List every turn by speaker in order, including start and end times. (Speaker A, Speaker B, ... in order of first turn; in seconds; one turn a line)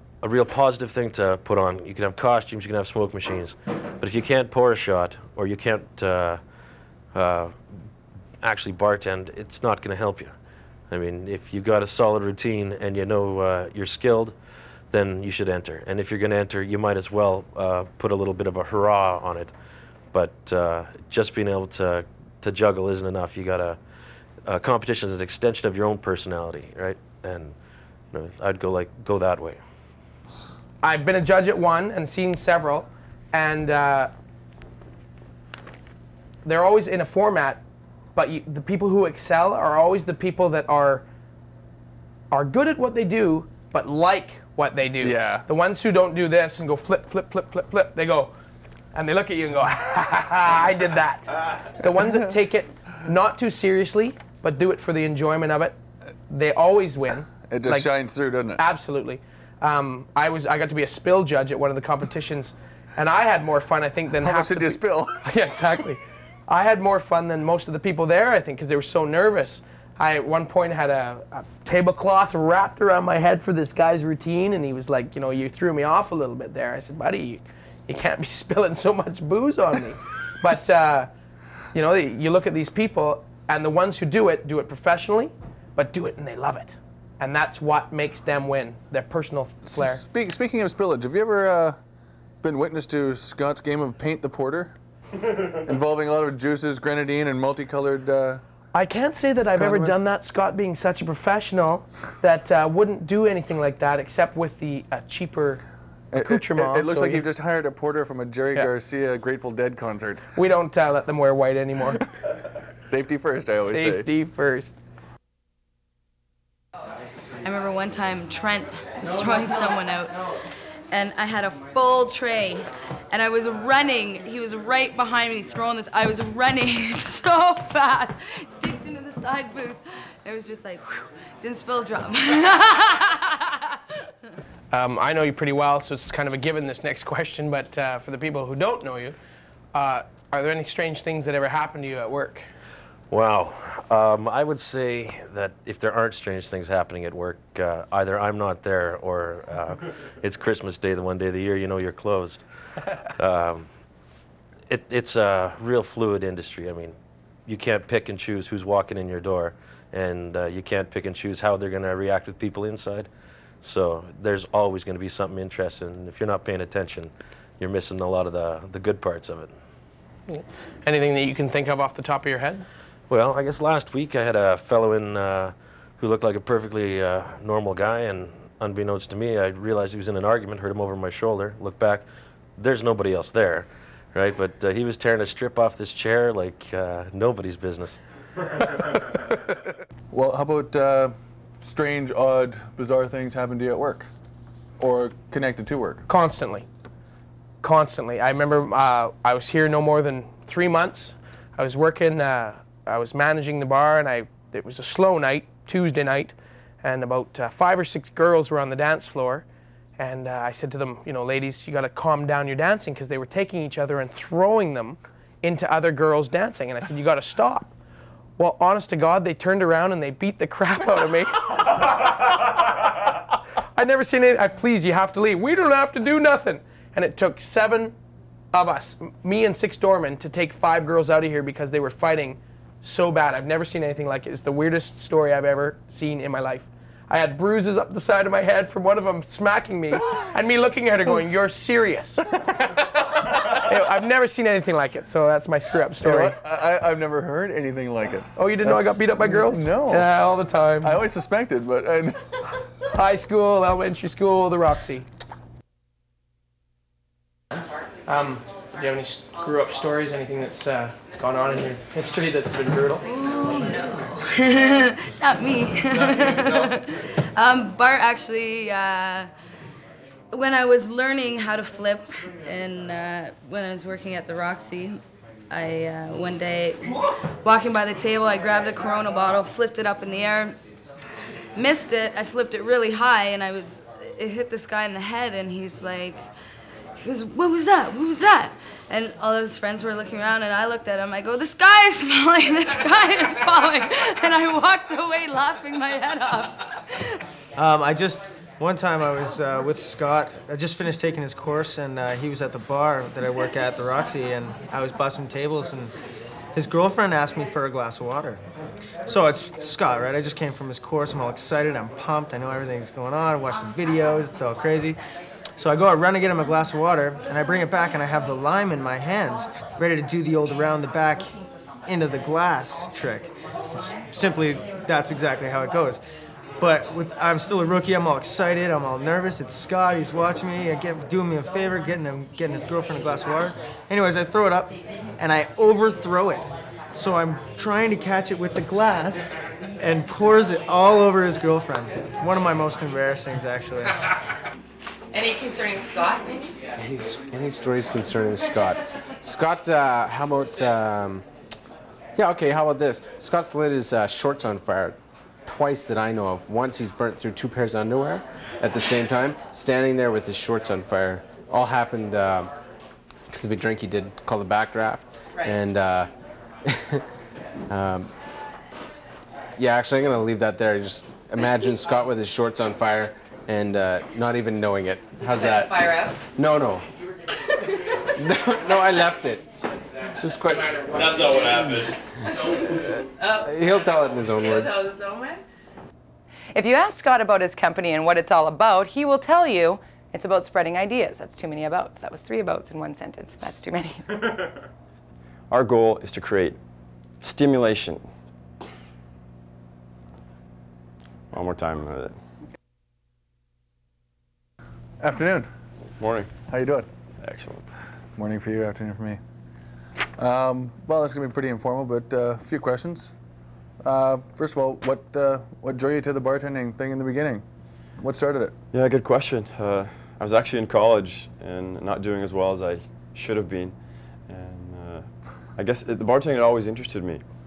Speaker A: 0.2-6.4
Speaker A: 7.1-7.6
Speaker A: 8.4-10.3
Speaker A: 10.9-14.4
Speaker A: 14.9-19.5
Speaker A: 20.1-23.8
Speaker A: 24.4-27.6
Speaker A: 28.1-29.6
Speaker B: 30.8-34.1
Speaker B: 36.4-37.6
Speaker B: 38.1-41.0
Speaker B: 42.3-48.3
Speaker C: 45.0-45.5
Speaker B: 48.9-55.8
Speaker B: 56.3-57.9
Speaker C: 57.5-58.6
Speaker B: 58.6-81.1
Speaker C: 64.1-65.2
Speaker B: 81.7-90.0
Speaker C: 89.7-91.8
Speaker C: 92.4-94.7
Speaker C: 95.5-98.4
Speaker B: 98.7-105.6
Speaker C: 99.5-100.0
Speaker C: 106.1-110.2
Speaker B: 106.1-107.3
Speaker B: 110.3-112.0
Speaker C: 112.8-114.1
Speaker B: 113.7-114.7
Speaker D: 117.4-120.2
Speaker D: 120.9-133.6
Speaker B: 134.7-139.2
Speaker B: 139.7-142.5
Speaker A: 143.1-152.4
Speaker A: 153.2-153.7
Speaker A: 154.7-156.9
Speaker A: 157.5-163.1
Speaker A: 163.6-169.5
Speaker B: 170.3-172.7
Speaker A: 173.1-182.1
Speaker A: 182.6-188.0
Speaker C: 190.1-194.1
Speaker C: 194.8-196.0
Speaker B: 196.1-196.7
Speaker B: 197.6-209.4
Speaker B: 210.0-217.7
Speaker B: 218.4-222.1
Speaker B: 223.8-227.9
Speaker B: 228.5-242.3
Speaker B: 243.2-246.4
Speaker C: 246.0-250.1
Speaker B: 248.4-251.0
Speaker C: 250.8-252.2
Speaker B: 252.9-255.1
Speaker B: 258.1-263.1
Speaker D: 263.3-269.3
Speaker D: 270.3-276.8
Speaker D: 277.4-280.6
Speaker D: 281.6-286.2
Speaker D: 287.0-297.0
Speaker E: 297.6-305.9
Speaker E: 306.6-308.4
Speaker E: 309.1-315.0
Speaker E: 315.6-321.3
Speaker E: 321.9-326.0
Speaker E: 326.6-339.3
Speaker E: 339.8-343.9
Speaker F: 346.8-351.2
Speaker F: 352.2-362.5
Speaker F: 363.3-366.1
Speaker F: 366.6-367.0
Speaker F: 367.7-368.1
Speaker F: 369.6-376.8
Speaker F: 378.2-379.5
Speaker F: 380.2-381.9
Speaker F: 382.8-384.9
Speaker G: 386.5-394.5
Speaker H: 395.5-396.6
Speaker H: 397.2-398.1
Speaker H: 401.3-402.2
Speaker C: 405.0-405.5
Speaker H: 406.0-406.3
Speaker C: 406.5-406.9
Speaker H: 407.2-407.7
Speaker C: 408.2-409.2
Speaker C: 410.2-413.1
Speaker C: 413.8-417.4
Speaker C: 418.0-418.5
Speaker H: 418.7-423.8
Speaker H: 424.3-427.2